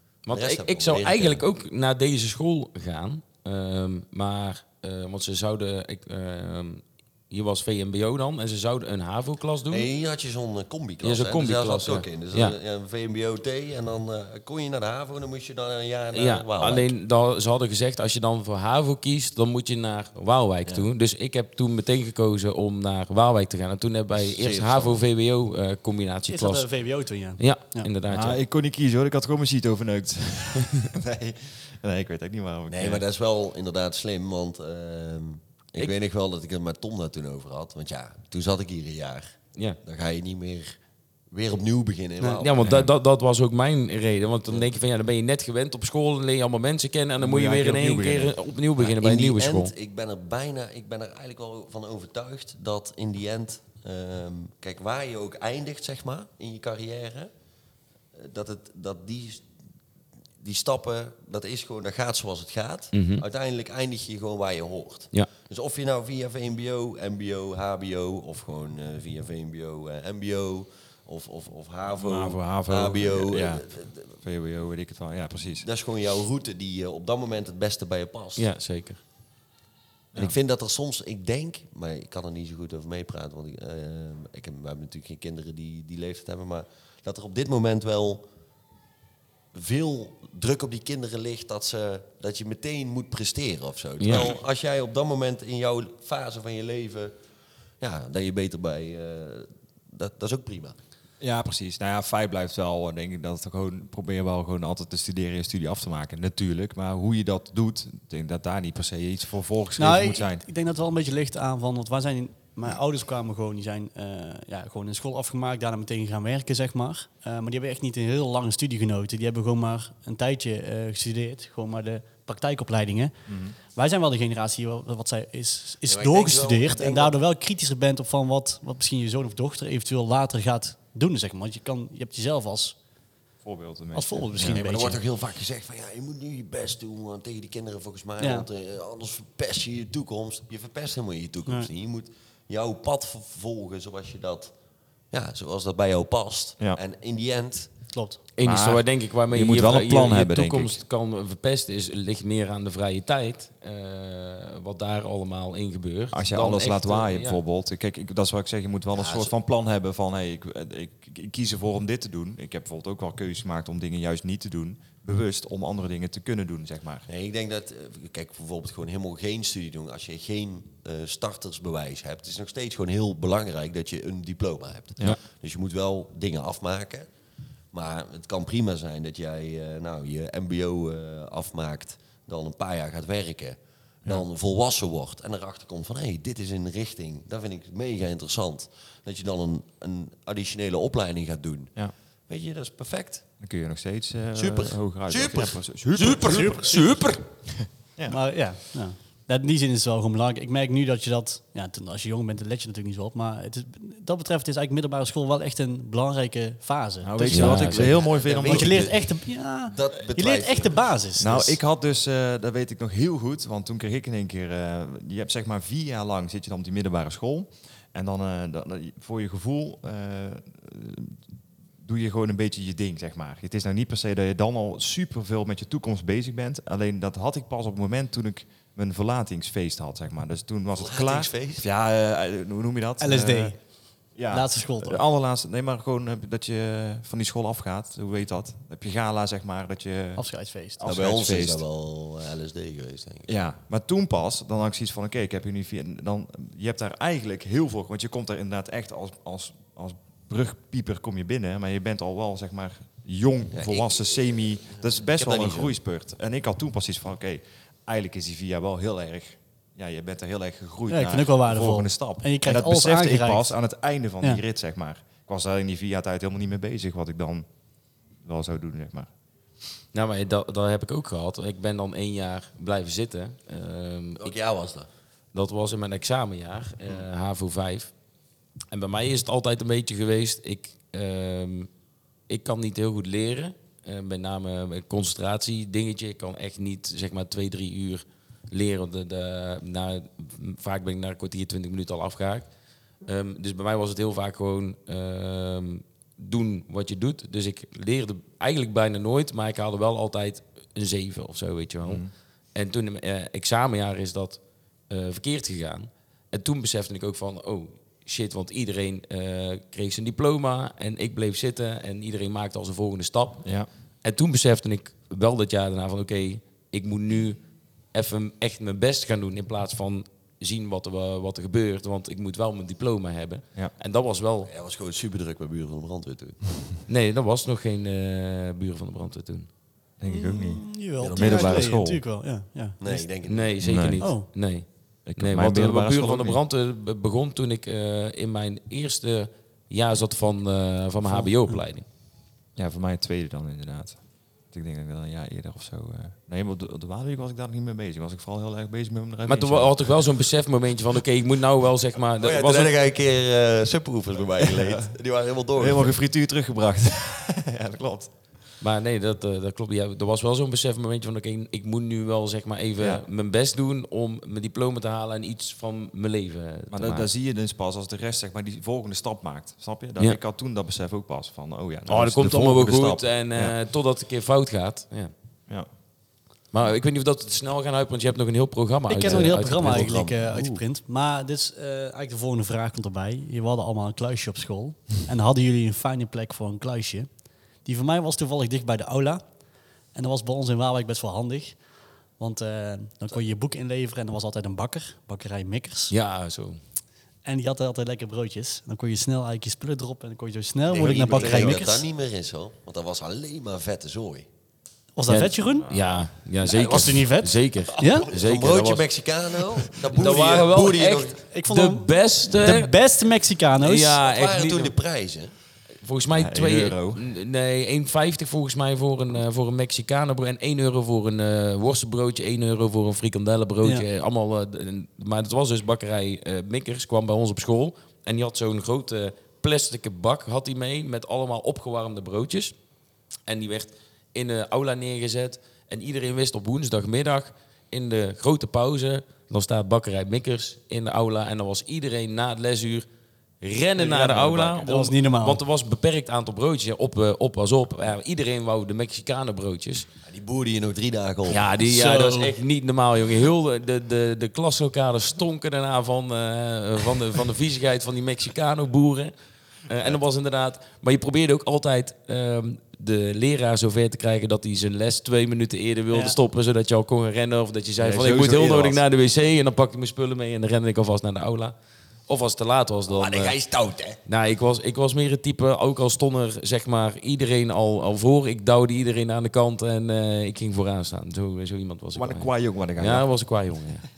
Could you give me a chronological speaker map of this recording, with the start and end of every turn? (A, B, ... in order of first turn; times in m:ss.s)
0:00.2-0:09.9 A
0:00.3-0:01.4 B
0:09.7-0:16.9 B
0:11.0-0:12.6 A
0:16.1-0:26.7 A
0:24.2-0:25.0 B
0:26.3-0:27.9 C
0:27.4-0:28.4 A
0:28.1-0:33.0 D
0:32.7-0:40.8 B
0:41.3-0:42.5 B
0:42.4-0:49.7 A
0:42.6-0:42.9 D
0:47.2-0:48.4 D
0:48.8-0:57.3 B
0:58.1-0:59.5 B
1:00.4-1:14.1 B
1:02.9-1:03.2 A
1:11.9-1:15.6 D
1:15.6-1:18.5 B
1:18.4-1:19.0 A
1:20.1-1:28.2 B
1:29.5-1:37.1 B
1:34.0-1:34.4 A
1:37.8-1:40.8 B
1:41.2-1:50.4 D
1:49.8-2:03.1 C
2:03.3-2:03.5 D
2:03.7-2:12.8 C
2:05.8-2:07.1 B
2:13.4-2:14.6 D
2:13.9-2:15.0 C
2:14.4-2:24.5 B
2:18.2-2:18.4 C
2:25.1-2:27.7 B
2:27.9-2:28.2 C
2:28.4-2:37.4 A
2:28.4-2:30.8 D
2:36.1-2:47.1 D
2:38.9-2:39.3 B
2:47.1-2:57.1 B
2:57.7-3:13.2 B
3:13.4-3:16.5 D
3:14.4-3:17.2 B
3:16.2-3:16.9 C
3:18.1-3:27.8 C
3:27.0-3:28.9 D
3:27.3-3:28.0 A
3:27.8-3:31.0 B
3:28.3-3:31.6 C
3:31.2-3:41.2 D
3:41.8-3:53.6 D
3:50.8-3:51.6 B
3:53.0-3:53.6 C
3:54.2-4:00.3 D
3:54.3-3:55.0 C
4:00.2-4:00.8 C
4:00.8-4:01.6 D
4:00.8-4:03.3 B
4:03.3-4:27.4 D
4:13.5-4:15.7 B
4:20.9-4:23.6 C
4:28.2-4:29.1 D
4:29.9-4:34.3 A
4:34.2-4:34.9 B
4:35.3-4:37.9 A
4:38.7-4:41.7 A
4:42.3-4:52.5 A
4:53.0-5:02.0 A
5:01.8-5:02.1 D
5:02.5-5:13.4 A
5:13.4-5:13.7 D
5:14.0-5:17.4 A
5:17.9-5:24.5 A
5:24.4-5:26.8 B
5:26.9-5:29.5 A
5:30.0-5:32.0 D
5:30.1-5:33.0 C
5:31.0-5:31.8 B
5:32.8-5:33.6 B
5:33.2-5:41.8 A
5:33.6-5:34.1 D
5:34.0-5:34.3 C
5:35.0-5:36.4 D
5:42.6-5:50.0 D
5:49.3-5:52.7 A
5:52.2-5:56.0 B
5:54.6-5:54.9 D
5:55.6-5:58.1 D
5:58.6-6:07.1 A
6:06.7-6:13.6 D
6:11.9-6:15.1 A
6:16.5-6:20.1 A
6:18.9-6:27.1 C
6:19.0-6:20.2 B
6:20.3-6:20.6 D
6:27.6-6:29.2 C
6:29.9-6:31.6 C
6:32.2-6:35.9 C
6:35.9-6:36.6 A
6:37.2-6:41.8 C
6:40.7-6:44.3 B
6:41.1-6:41.6 D
6:45.0-6:45.7 C
6:45.1-6:48.8 A
6:45.4-6:46.1 D
6:46.4-6:48.1 C
6:46.5-6:46.9 B
6:47.8-6:51.2 B
6:49.9-6:52.7 A
6:51.3-6:54.0 C
6:53.6-6:54.7 A
6:54.0-6:55.3 B
6:55.8-7:12.5 A
6:56.1-6:57.0 D
7:13.3-7:22.8 A
7:23.4-7:29.8 A
7:23.8-7:25.4 C
7:23.9-7:24.6 D
7:30.0-7:31.5 B
7:31.3-7:39.1 A
7:31.6-7:32.3 C
7:39.7-7:51.5 A
7:45.9-7:46.2 C
7:47.8-7:48.8 D
7:52.1-7:53.4 A
7:52.9-7:54.0 B
7:54.0-8:03.8 A
8:01.9-8:03.1 D